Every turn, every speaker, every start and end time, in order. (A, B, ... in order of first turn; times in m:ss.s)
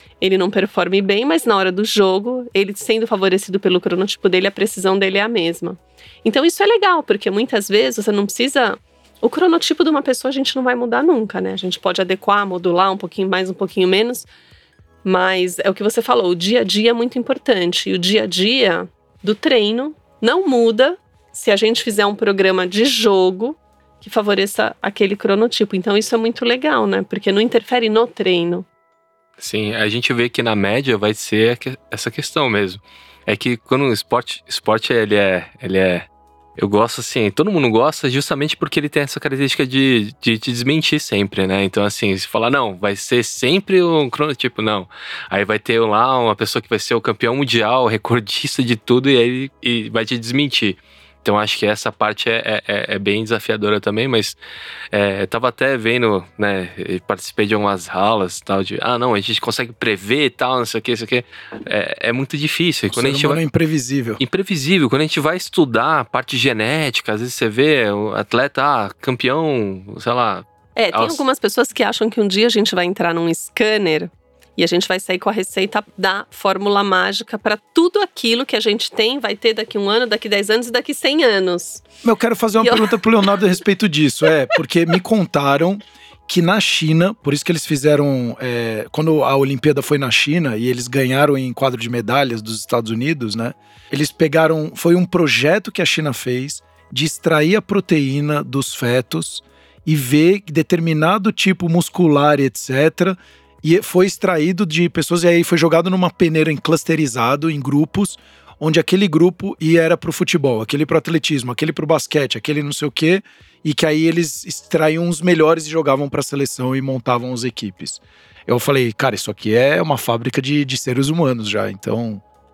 0:00.2-0:14.3 A
0:15.0-0:28.6 A
0:29.4-0:54.4 B
0:54.9-1:03.4 B
1:02.9-1:04.2 C
1:04.2-1:11.2 B
1:10.8-1:21.8 A
1:22.0-2:02.2 C
1:22.6-1:23.0 A